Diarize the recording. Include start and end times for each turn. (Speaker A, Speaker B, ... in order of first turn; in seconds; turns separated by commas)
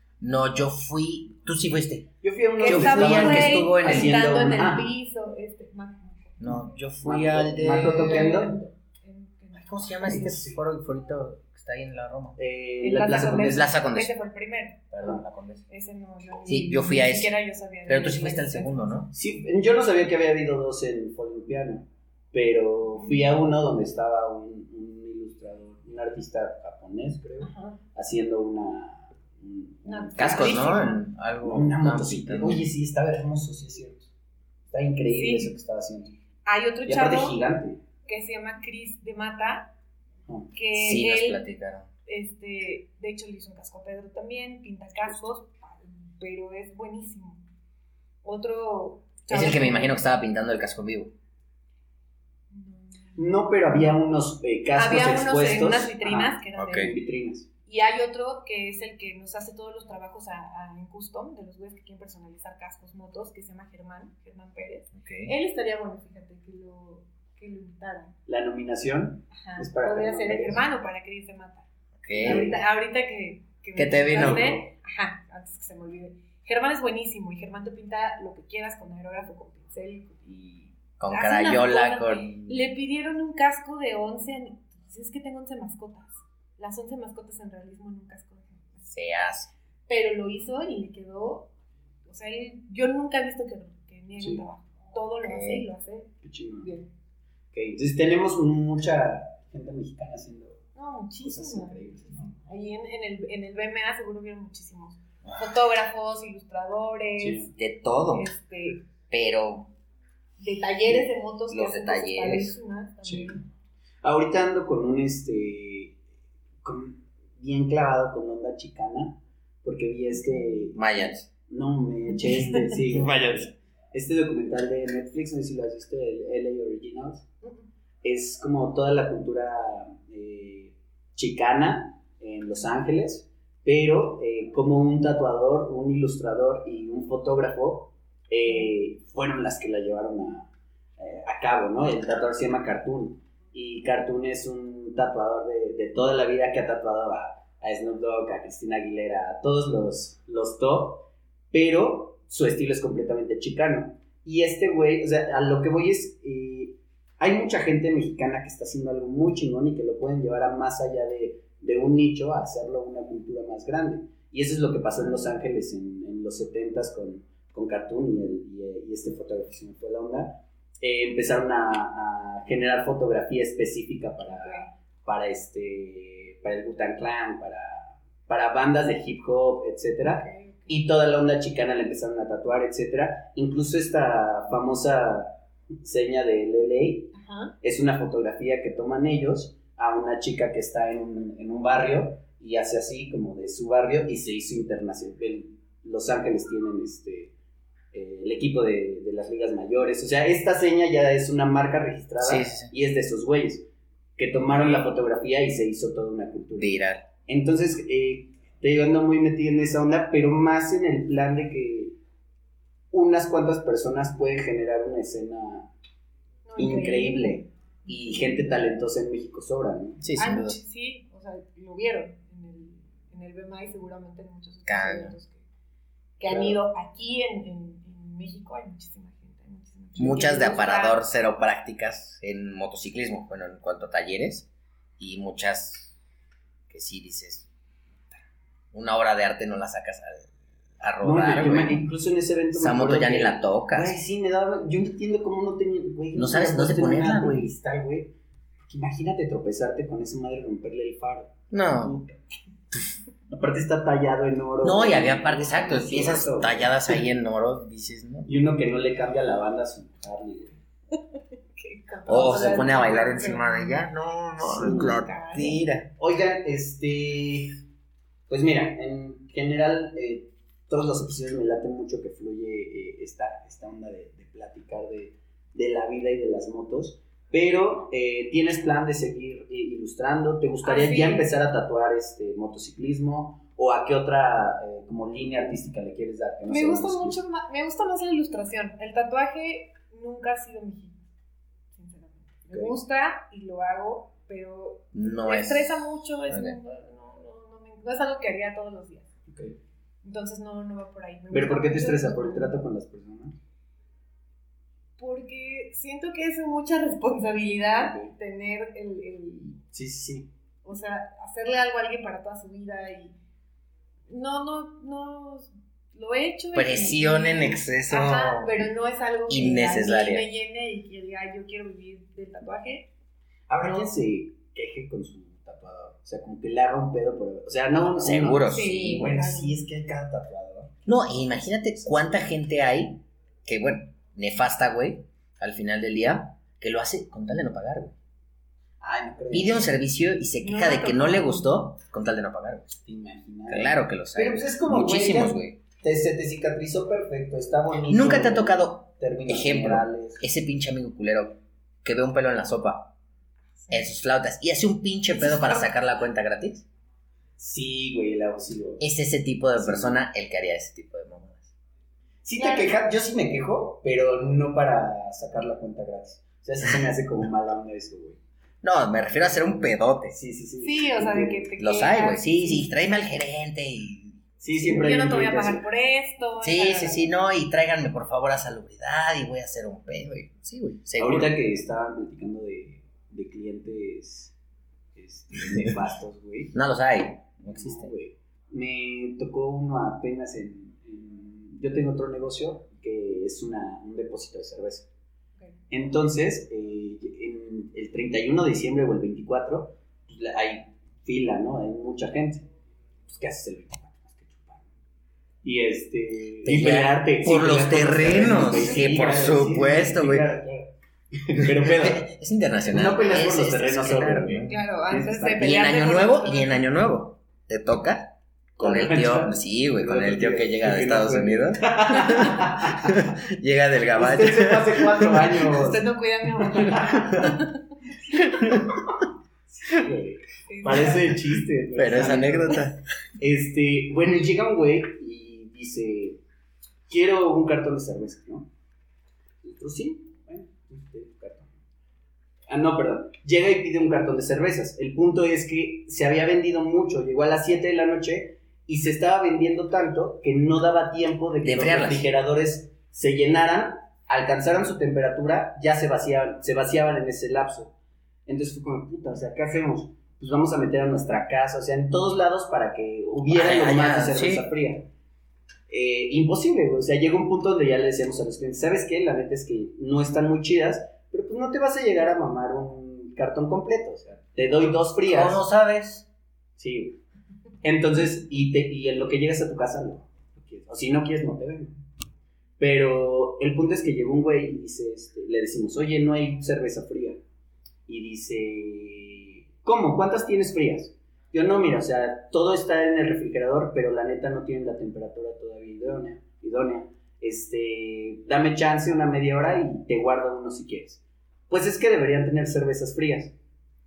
Speaker A: 0.2-4.2, Speaker B: 2.2-4.9, Speaker C: 2.6-6.8, Speaker A: 6.4-8.4, Speaker B: 7.0-8.6, Speaker C: 7.8-10.3, Speaker A: 9.5-12.4, Speaker B: 10.0-10.6, Speaker B: 12.4-13.7, Speaker C: 12.8-14.9, Speaker A: 13.5-14.1, Speaker A: 14.9-15.6, Speaker C: 15.7-18.9, Speaker A: 16.4-17.3, Speaker A: 17.9-19.1, Speaker B: 19.1-30.7, Speaker C: 22.9-23.3, Speaker C: 27.4-27.8, Speaker C: 29.8-31.0, Speaker A: 30.2-32.7, Speaker B: 31.4-34.1, Speaker B: 34.7-36.1, Speaker C: 35.1-35.5, Speaker C: 36.5-37.4, Speaker B: 36.9-37.8, Speaker C: 38.0-39.7, Speaker C: 40.5-41.4, Speaker A: 40.7-41.9, Speaker C: 42.0-47.4, Speaker C: 48.2-50.0, Speaker A: 49.3-51.1, Speaker C: 52.5-53.3, Speaker B: 53.1-57.5, Speaker C: 54.8-57.0, Speaker A: 56.5-56.9, Speaker C: 57.7-68.1, Speaker A: 65.0-65.3, Speaker B: 68.3-70.7, Speaker C: 69.3-71.7, Speaker A: 72.0-72.5, Speaker B: 72.1-72.6, Speaker C: 72.2-88.9, Speaker A: 73.8-74.5, Speaker B: 74.1-74.6, Speaker A: 81.0-82.3, Speaker A: 88.9-89.5, Speaker C: 89.9-91.5, Speaker C: 92.0-96.9, Speaker B: 94.2-94.4, Speaker A: 95.2-95.7, Speaker B: 96.2-96.7, Speaker B: 97.5-100.6, Speaker C: 100.7-107.5, Speaker B: 101.2-102.3, Speaker B: 107.2-107.5, Speaker A: 107.5-108.3, Speaker C: 108.1-108.8, Speaker A: 109.1-109.7, Speaker C: 110.4-113.4, Speaker A: 111.5-112.6, Speaker B: 113.0-113.4, Speaker B: 114.0-116.0, Speaker B: 116.6-120.8, Speaker A: 120.7-121.3, Speaker B: 121.5-123.3, Speaker A: 122.8-123.5, Speaker B: 123.9-127.3, Speaker B: 128.0-197.3, Speaker C: 174.2-174.7, Speaker C: 180.0-180.8, Speaker C: 187.1-187.5, Speaker B: 197.9-206.7, Speaker A: 202.2-202.7, Speaker C: 204.4-204.9, Speaker A: 206.6-207.1, Speaker B: 207.3-211.9, Speaker B: 212.9-215.7, Speaker C: 216.5-218.4, Speaker B: 216.6-220.0, Speaker A: 220.0-220.6, Speaker C: 220.2-225.4, Speaker A: 224.7-225.1, Speaker C: 226.2-231.0, Speaker B: 226.3-226.6, Speaker A: 230.0-234.5, Speaker A: 235.0-235.9, Speaker A: 236.7-237.5, Speaker A: 238.7-241.8, Speaker B: 241.0-248.1, Speaker A: 242.5-244.0, Speaker A: 246.1-247.5, Speaker B: 248.7-252.1, Speaker A: 251.5-252.0, Speaker B: 253.3-257.0, Speaker A: 254.6-258.3, Speaker B: 258.2-260.6, Speaker C: 261.5-263.9, Speaker A: 262.1-265.9, Speaker B: 264.4-265.0, Speaker C: 264.6-265.6, Speaker B: 266.0-267.6, Speaker B: 268.3-287.2, Speaker C: 280.6-281.3, Speaker C: 286.5-291.0, Speaker C: 291.7-299.1, Speaker A: 294.9-296.6, Speaker B: 299.3-299.5, Speaker C: 300.0-302.6, Speaker B: 301.3-303.4, Speaker C: 305.0-309.6, Speaker B: 307.8-308.1, Speaker B: 309.7-310.3, Speaker C: 310.6-313.1, Speaker C: 314.1-322.9, Speaker A: 316.5-318.6, Speaker A: 319.3-320.3, Speaker B: 323.5-330.7, Speaker A: 328.0-329.2, Speaker C: 328.4-329.6, Speaker A: 330.9-337.9, Speaker B: 338.8-339.6, Speaker A: 339.3-342.7, Speaker C: 340.4-341.6, Speaker B: 342.8-350.2, Speaker A: 343.5-345.6, Speaker A: 347.9-352.9, Speaker C: 353.6-353.9, Speaker A: 353.7-356.6, Speaker C: 355.1-355.7, Speaker B: 357.4-358.8, Speaker A: 358.8-361.5, Speaker B: 359.6-360.0, Speaker B: 362.2-368.2, Speaker C: 362.4-362.8, Speaker A: 368.6-370.1, Speaker B: 370.1-371.5, Speaker C: 370.6-372.7, Speaker A: 371.6-375.0, Speaker B: 374.4-375.6, Speaker C: 374.7-377.1, Speaker A: 376.4-381.4, Speaker B: 381.0-384.3, Speaker B: 384.9-386.5, Speaker A: 386.5-387.9, Speaker B: 387.5-394.9, Speaker B: 395.7-402.4, Speaker B: 403.1-404.7, Speaker B: 405.4-412.1, Speaker A: 406.4-410.3, Speaker C: 408.4-408.9, Speaker A: 411.4-414.5, Speaker B: 412.7-415.5, Speaker C: 414.4-416.6, Speaker A: 415.4-425.4, Speaker B: 418.6-423.0, Speaker B: 423.9-425.8, Speaker C: 425.5-427.6, Speaker A: 428.1-428.8, Speaker B: 429.5-432.6, Speaker C: 430.4-431.0, Speaker A: 431.7-432.8, Speaker B: 433.2-436.2, Speaker B: 436.9-438.5, Speaker B: 439.4-441.5, Speaker B: 442.5-457.7, Speaker A: 451.4-452.1, Speaker B: 458.3-464.9, Speaker A: 463.3-464.4, Speaker B: 465.7-475.4, Speaker A: 475.1-476.1, Speaker B: 476.6-477.0, Speaker B: 477.6-481.8, Speaker B: 482.6-487.2, Speaker B: 487.9-503.3